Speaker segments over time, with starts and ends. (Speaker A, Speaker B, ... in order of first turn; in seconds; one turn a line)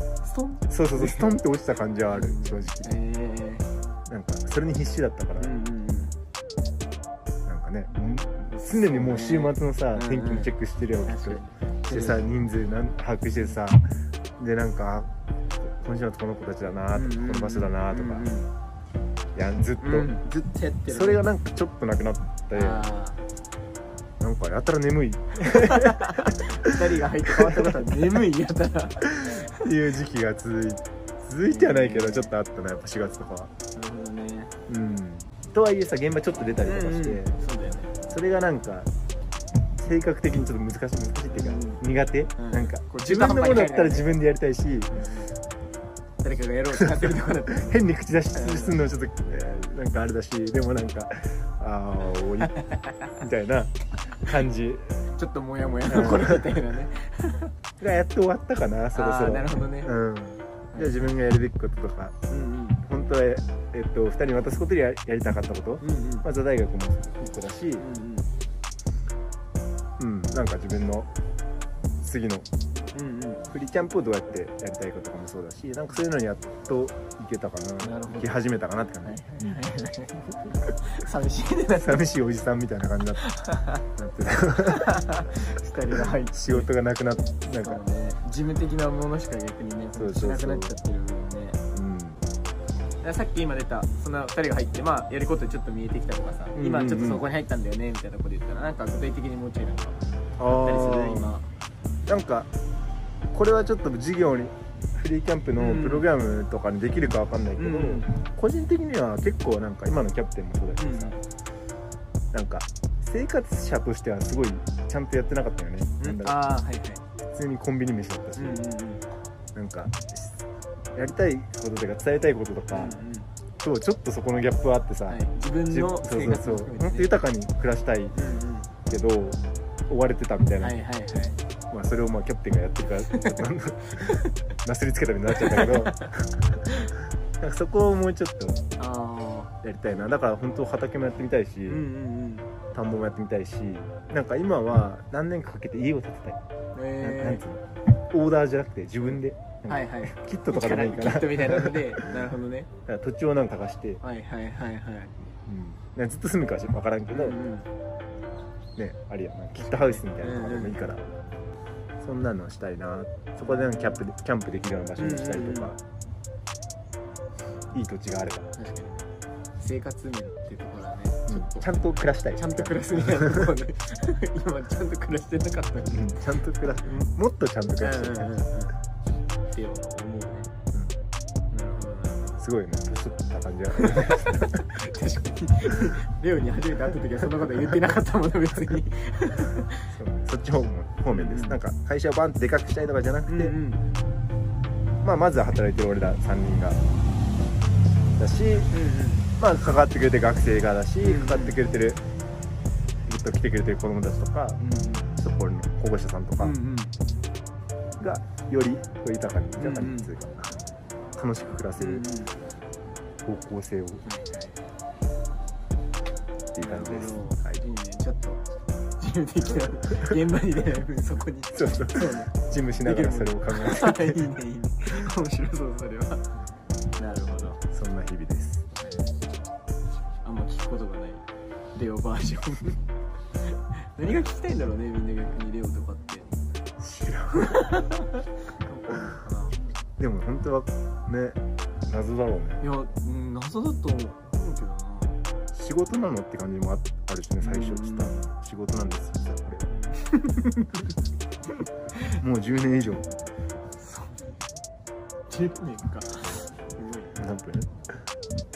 Speaker A: 0.2-1.3
Speaker B: 0.7-3.0
Speaker A: 2.1-3.7
Speaker B: 4.1-5.5
Speaker A: 5.4-6.2
Speaker B: 7.5-15.1
Speaker A: 8.6-10.5
Speaker A: 11.0-12.2
Speaker B: 15.8-18.3
Speaker A: 16.9-18.5
Speaker B: 19.3-20.1
Speaker A: 19.8-21.2
Speaker B: 20.9-22.9
Speaker A: 22.5-23.2
Speaker B: 24.2-26.7
Speaker A: 25.8-29.4
Speaker B: 27.3-27.7
Speaker B: 29.0-33.5
Speaker A: 31.5-32.3
Speaker A: 33.7-34.5
Speaker B: 34.7-37.4
Speaker A: 36.6-38.0
Speaker B: 38.1-38.9
Speaker B: 39.8-45.0
Speaker A: 41.3-41.8
Speaker A: 42.4-44.1
Speaker A: 44.9-45.3
Speaker A: 46.2-47.8
Speaker B: 46.7-52.5
Speaker A: 48.3-48.8
Speaker B: 53.1-55.0
Speaker A: 55.1-57.5
Speaker B: 55.9-56.6
Speaker B: 57.8-62.1
Speaker A: 58.9-59.9
Speaker A: 60.7-61.1
Speaker A: 62.3-62.8
Speaker B: 62.8-67.9
Speaker A: 65.8-66.2
Speaker A: 67.8-68.3
Speaker B: 70.0-71.1
Speaker B: 72.0-72.5
Speaker A: 72.9-73.4
Speaker B: 73.5-79.6
Speaker A: 77.8-78.3
Speaker A: 79.0-82.0
Speaker B: 81.8-83.3
Speaker A: 83.3-83.8
Speaker B: 83.9-85.0
Speaker A: 84.8-86.7
Speaker B: 85.9-87.8
Speaker A: 87.5-91.6
Speaker B: 89.9-90.8
Speaker B: 91.7-92.2
Speaker A: 93.0-100.0
Speaker B: 96.5-97.2
Speaker B: 100.4-101.4
Speaker A: 100.5-101.5
Speaker B: 102.1-102.5
Speaker B: 103.3-111.2
Speaker A: 105.6-106.1
Speaker A: 107.6-108.1
Speaker A: 110.8-111.2
Speaker B: 112.3-116.4
Speaker A: 116.0-117.0
Speaker B: 117.3-118.7
Speaker A: 118.4-119.0
Speaker B: 119.5-120.4
Speaker B: 120.9-123.0
Speaker A: 122.7-123.3
Speaker B: 123.6-128.2
Speaker A: 125.1-127.1
Speaker A: 128.1-128.7
Speaker B: 128.8-130.8
Speaker A: 130.6-131.4
Speaker B: 131.7-138.6
Speaker A: 133.9-134.2
Speaker A: 135.4-136.0
Speaker A: 138.8-139.5
Speaker B: 139.6-141.8
Speaker A: 141.7-142.5
Speaker B: 142.7-146.4
Speaker A: 146.7-147.4
Speaker B: 147.0-152.1
Speaker A: 149.7-152.7
Speaker B: 152.9-154.0
Speaker A: 154.0-155.1
Speaker B: 155.4-157.4
Speaker A: 157.1-157.7
Speaker B: 158.8-161.1
Speaker A: 159.6-160.8
Speaker B: 162.0-165.8
Speaker A: 163.4-164.0
Speaker A: 165.0-165.7
Speaker B: 167.7-168.5
Speaker A: 168.6-171.7
Speaker B: 171.3-173.5
Speaker A: 172.3-176.6
Speaker B: 175.9-178.4
Speaker A: 177.8-178.8
Speaker A: 179.5-180.5
Speaker A: 181.5-182.5
Speaker B: 182.4-184.6
Speaker A: 183.8-189.9
Speaker B: 189.9-193.6
Speaker A: 191.1-191.6
Speaker A: 193.3-193.8
Speaker B: 195.0-196.8
Speaker B: 198.2-198.7
Speaker A: 198.7-199.3
Speaker B: 199.4-202.0
Speaker A: 201.0-201.6
Speaker B: 203.1-204.6
Speaker A: 204.6-205.1
Speaker B: 205.2-206.6
Speaker A: 206.4-206.9
Speaker B: 208.0-210.5
Speaker A: 209.6-210.1
Speaker B: 211.2-212.1
Speaker A: 211.8-212.3
Speaker B: 213.2-214.0
Speaker A: 214.0-214.6
Speaker B: 216.5-217.6
Speaker A: 216.6-218.4
Speaker A: 219.0-226.3
Speaker B: 221.5-224.2
Speaker A: 226.9-227.6
Speaker B: 227.7-228.7
Speaker A: 230.2-232.8
Speaker A: 233.5-236.3
Speaker B: 236.8-237.7
Speaker A: 237.4-239.6
Speaker B: 240.0-242.6
Speaker A: 242.6-245.2
Speaker B: 245.5-249.7
Speaker A: 247.4-248.2
Speaker A: 249.7-250.9
Speaker B: 252.2-253.1
Speaker A: 253.8-254.2
Speaker A: 255.3-257.1
Speaker B: 257.1-257.7